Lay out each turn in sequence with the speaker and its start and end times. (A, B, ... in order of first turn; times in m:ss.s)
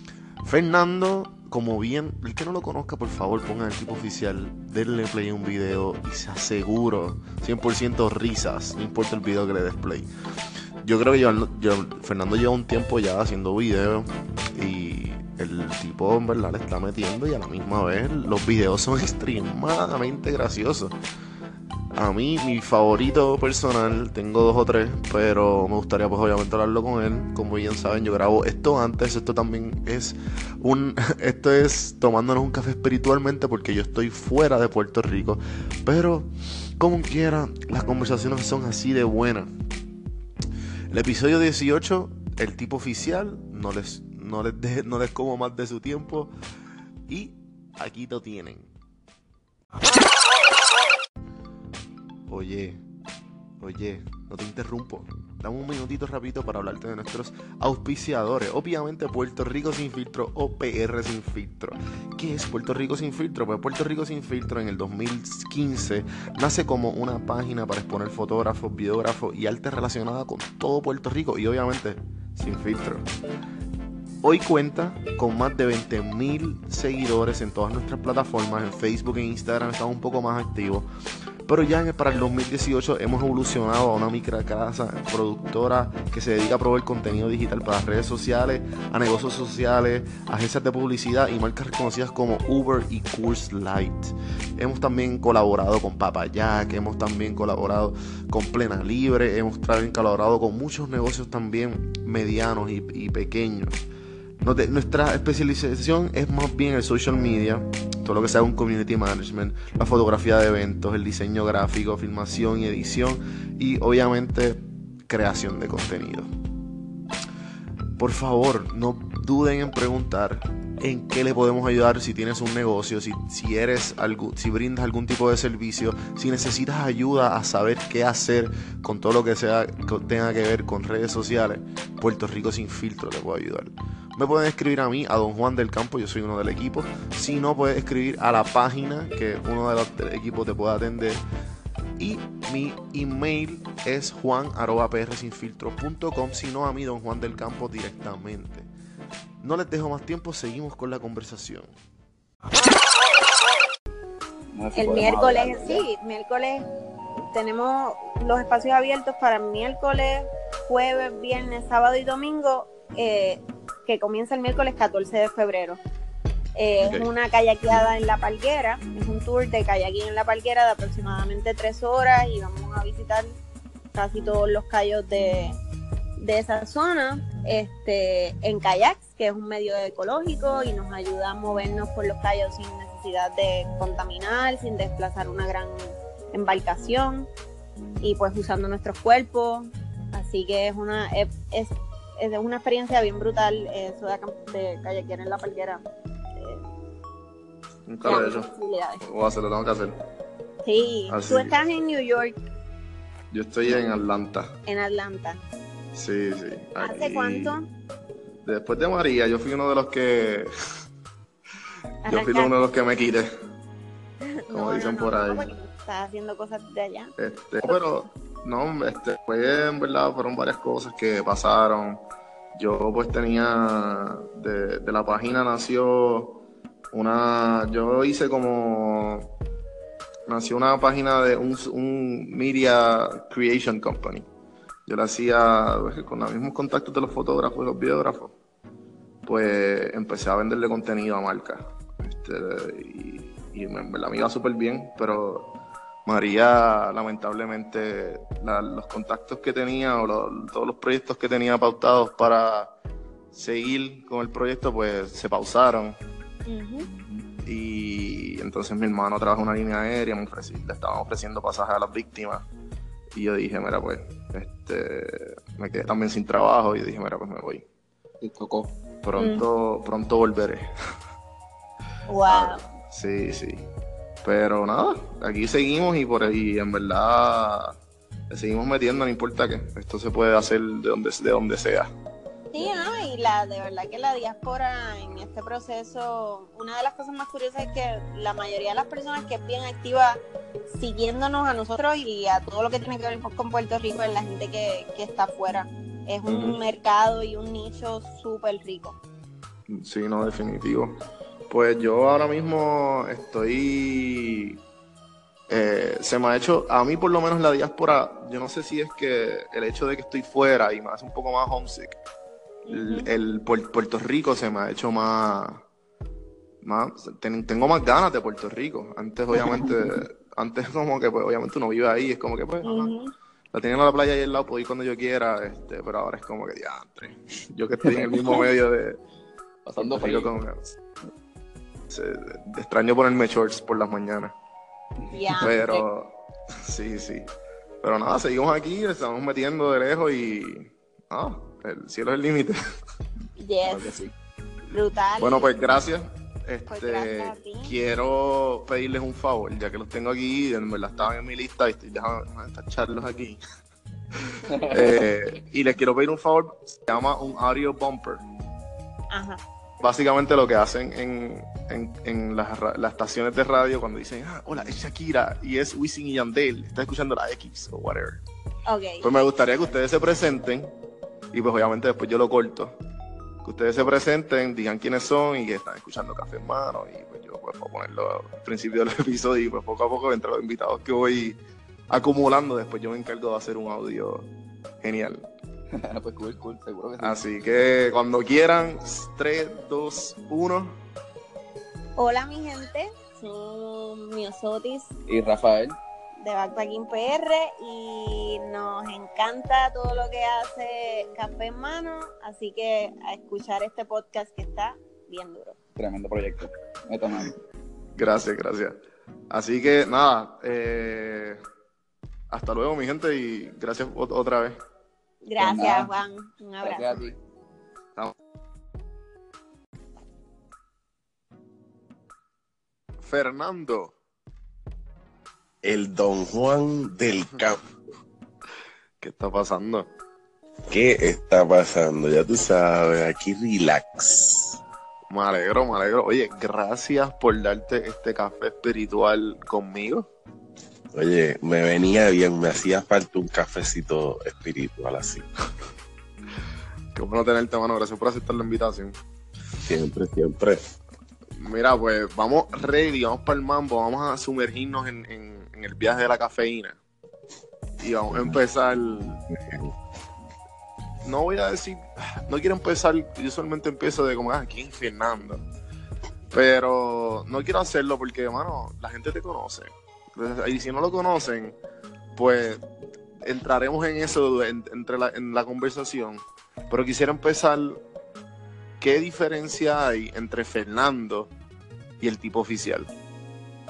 0:00.4-0:10.1 A
0:10.8-0:20.9 A
0:21.9-0:39.5 A
0:40.9-0:46.3 A
0:47.1-0:48.7 A
0:52.3-0:52.8 A
0:53.6-1:13.0 A
1:14.2-1:20.9 A
1:21.5-1:43.9 A
1:44.4-1:56.3 A
1:58.0-2:21.2 A
2:22.0-2:28.7 A
2:29.4-2:31.7 A
2:34.5-2:35.8 B
2:34.7-2:36.6 C
2:37.2-2:45.8 C
2:46.6-2:53.4 C
2:46.8-2:47.1 A
2:53.9-2:55.6 C
2:56.2-3:07.3 C
3:08.0-3:15.8 C
3:16.4-3:16.6 C
3:17.9-3:20.0 A
3:18.0-3:19.0 C
3:20.6-3:22.4 C
3:21.1-3:21.6 A
3:23.3-3:24.5 A
3:24.6-3:25.4 C
3:25.9-3:27.6 A
3:26.8-3:27.7 C
3:28.4-3:30.5 A
3:32.0-3:32.5 C
3:32.1-3:33.3 A
3:34.3-3:37.1 C
3:34.5-3:35.5 A
3:37.2-3:42.0 A
3:37.6-3:37.9 C
3:42.5-3:49.3 A
3:50.3-3:54.3 A
3:54.8-3:58.3 A
3:59.2-4:12.7 A
4:13.3-4:16.0 A
4:16.5-4:16.9 C
4:17.4-4:22.4 A
4:23.1-4:27.6 A
4:28.2-4:30.7 A
4:29.2-4:29.4 C
4:32.1-4:32.6 C
4:32.3-4:33.7 A
4:34.2-4:37.8 A
4:38.3-4:41.9 A
4:42.5-4:59.0 C
4:56.3-4:56.6 A
4:59.7-5:01.0 A
5:01.5-5:04.6 A
5:05.5-5:12.0 A
5:12.6-5:13.1 C
5:12.7-5:15.6 A
5:16.6-5:22.9 A
5:22.6-5:23.1 C
5:23.5-5:29.0 A
5:27.8-5:28.5 B
5:29.6-5:30.4 B
5:29.8-5:30.6 A
5:31.9-5:34.3 A
5:35.1-5:35.8 C
5:35.1-5:35.6 B
5:35.4-5:37.3 A
5:37.8-5:42.6 A
5:43.4-5:43.9 C
5:43.7-5:44.1 B
5:44.7-5:45.5 C
5:45.2-5:53.4 A
5:46.7-5:47.8 C
5:54.3-5:58.2 A
5:54.5-5:55.0 B
5:59.1-5:59.4 C
5:59.8-6:08.2 A
6:08.6-6:09.0 C
6:09.0-6:10.7 A
6:11.3-6:12.8 A
6:13.4-6:21.4 A
6:21.9-6:24.3 A
6:24.8-6:25.3 A
6:25.8-6:27.2 B
6:27.0-6:30.8 A
6:32.0-6:34.9 C
6:35.1-6:35.8 B
6:36.2-6:45.6 C
6:45.8-6:47.3 B
6:48.0-6:48.8 A
6:49.3-6:51.4 A
6:52.3-6:54.6 A
6:55.2-6:57.0 C
6:55.4-6:55.9 B
6:56.6-6:57.2 B
7:03.0-7:04.0 A
7:05.6-7:07.6 D
7:09.0-7:09.9 A
7:10.7-7:14.6 D
7:15.1-7:20.1 A
7:20.9-7:25.3 D
7:26.9-7:29.0 A
7:29.6-7:30.6 D
7:31.4-7:36.8 A
7:37.8-7:39.2 A
7:38.1-7:38.4 D
7:39.3-7:39.7 D
7:41.0-7:45.4 A
7:46.3-7:51.6 A
7:52.2-7:52.6 A
7:53.2-7:57.8 A
7:58.8-8:01.3 A
8:02.0-8:02.9 A